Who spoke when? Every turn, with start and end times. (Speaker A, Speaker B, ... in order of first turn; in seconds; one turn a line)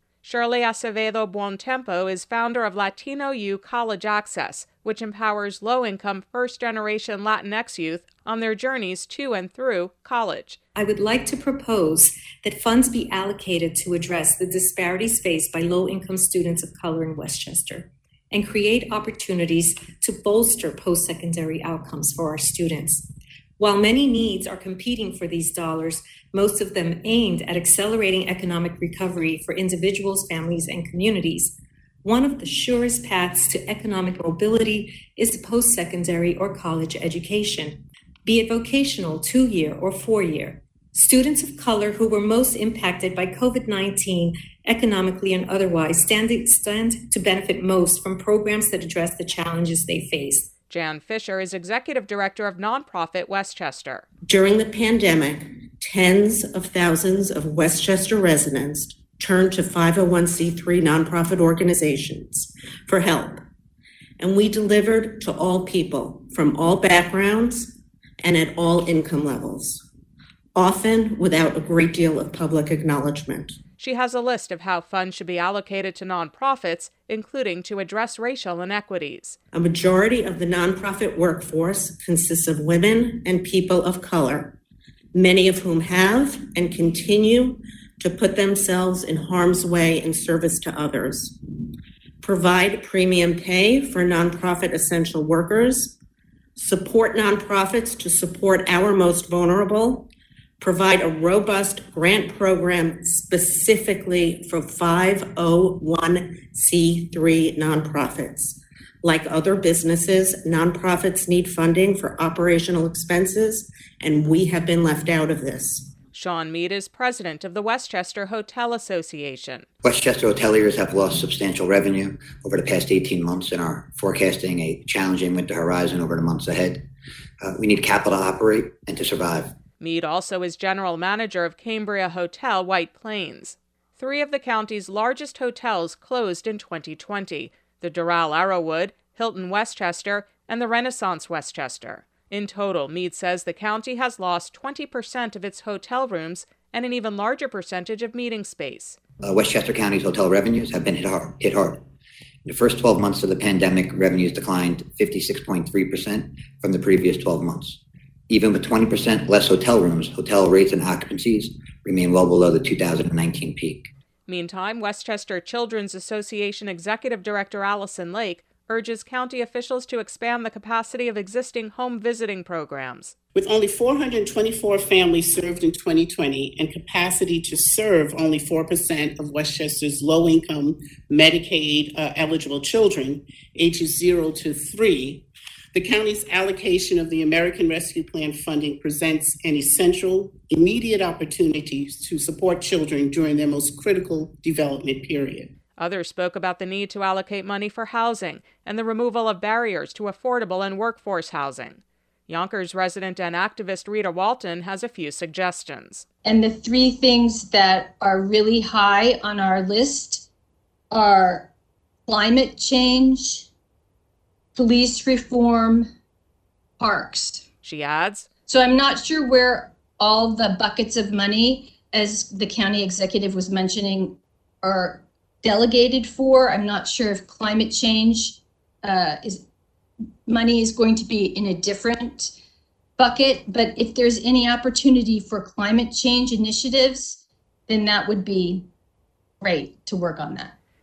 Speaker A: 0.2-10.6
Speaker B: 10.8-50.5
Speaker A: 50.7-54.0
Speaker C: 54.3-63.4
Speaker C: 64.2-69.8
Speaker C: 70.5-73.5
Speaker A: 73.8-79.4
Speaker C: 79.5-84.6
Speaker C: 85.1-91.4
Speaker C: 92.2-96.0
Speaker C: 96.5-100.1
Speaker C: 100.6-115.9
Speaker A: 116.1-119.7
Speaker D: 119.8-126.8
Speaker D: 127.4-129.5
Speaker A: 129.8-149.0
Speaker D: 149.2-151.8
Speaker D: 152.4-163.9
Speaker A: 164.3-173.1
Speaker E: 173.3-195.5
Speaker A: 195.8-206.1
Speaker F: 206.2-210.3
Speaker F: 210.9-211.5
Speaker F: 212.1-213.5
Speaker F: 214.5-215.9
Speaker F: 216.8-217.4
Speaker A: 217.6-218.3
Speaker F: 218.5-229.4
Speaker F: 230.2-232.3
Speaker F: 233.0-238.7
Speaker F: 239.4-240.5